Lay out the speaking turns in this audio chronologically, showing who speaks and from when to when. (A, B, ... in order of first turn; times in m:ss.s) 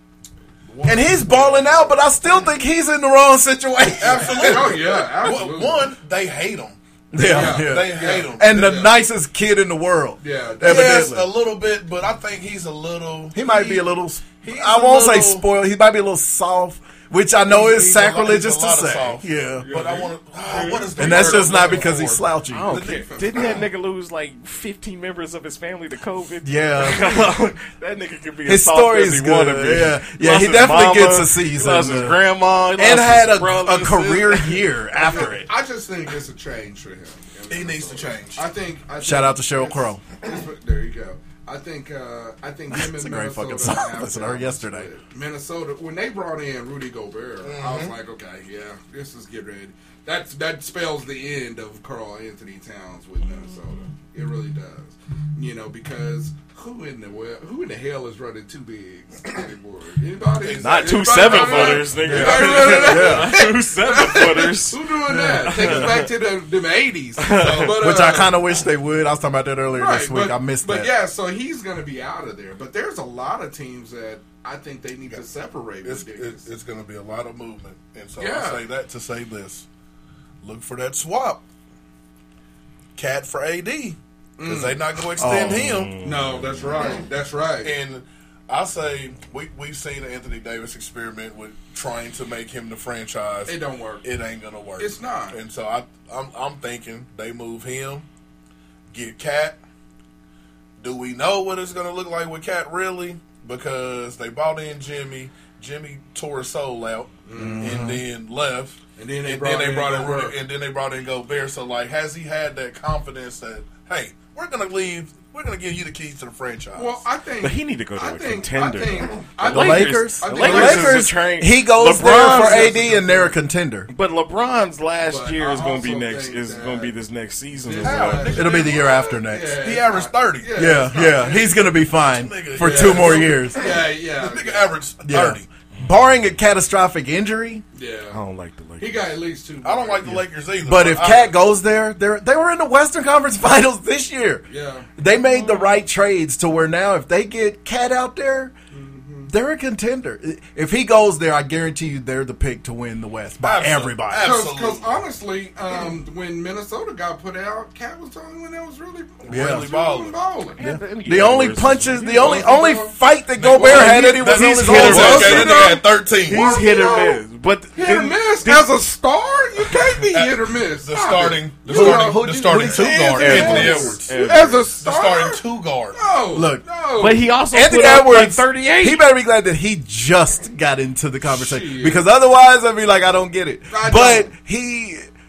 0:00.7-0:02.5 A
0:00.8-0:04.8 B
0:04.0-0:08.8 C
0:04.0-0:05.9 A
0:07.1-0:11.3 B
0:07.2-0:09.0 A
0:10.2-0:11.1 A
0:10.6-0:13.9 C
0:13.3-0:19.7 B
0:14.4-0:15.5 C
0:17.5-0:23.5 C
0:19.6-0:21.1 D
0:19.7-0:22.1 A
0:21.0-0:22.8 B
0:22.5-0:34.7 D
0:22.7-0:23.6 A
0:26.4-0:27.3 B
0:28.4-0:35.5 B
0:35.0-1:08.4 A
0:37.5-0:38.4 C
0:39.0-0:40.0 B
0:42.7-0:44.9 B
0:47.4-0:47.9 C
1:00.4-1:02.4 C
1:00.6-1:04.8 D
1:02.0-1:03.5 B
1:05.1-1:05.9 B
1:05.6-1:06.0 D
1:07.2-1:07.7 D
1:07.3-1:07.8 C
1:07.7-1:10.9 B
1:09.7-1:16.4 A
1:15.8-1:19.6 C
1:18.2-1:18.6 A
1:20.4-1:21.4 C
1:23.0-1:26.0 C
1:24.4-1:24.8 A
1:25.2-1:25.9 B
1:25.6-1:26.6 D
1:26.0-1:27.7 A
1:27.6-1:38.0 C
1:33.5-1:34.0 A
1:34.8-1:35.4 A
1:38.9-1:39.6 C
1:40.8-1:57.0 C
1:47.2-1:47.8 A
1:47.3-1:48.0 B
1:49.0-1:50.4 A
1:56.7-2:01.1 A
1:57.4-2:02.7 D
1:59.4-2:03.9 B
2:02.0-2:03.4 A
2:03.9-2:08.4 D
2:05.0-2:07.0 A
2:07.6-2:11.7 A
2:07.8-2:10.7 C
2:08.4-2:09.6 B
2:10.5-2:13.7 B
2:12.0-2:15.5 C
2:12.5-2:14.8 A
2:15.0-2:17.6 B
2:17.7-2:18.2 A
2:18.1-2:19.2 D
2:18.8-2:20.2 A
2:19.6-2:21.4 C
2:20.1-2:24.4 B
2:24.5-2:24.9 A
2:25.0-2:28.5 B
2:25.2-2:25.8 D
2:28.7-2:29.3 A
2:29.3-2:34.4 B
2:33.4-2:35.0 C
2:34.2-2:40.6 A
2:39.2-2:40.2 C
2:39.3-2:39.6 B
2:40.6-2:42.7 D
2:40.6-2:45.6 B
2:42.2-2:43.0 A
2:43.4-2:46.6 C
2:43.5-2:47.2 A
2:43.8-2:48.7 D
2:47.7-2:57.2 A
2:50.1-2:56.0 C
2:51.6-2:54.0 B
2:53.2-2:54.7 D
2:56.3-2:56.6 B
2:57.0-2:59.0 D
2:57.5-3:05.1 B
3:01.2-3:02.1 A
3:03.7-3:04.3 A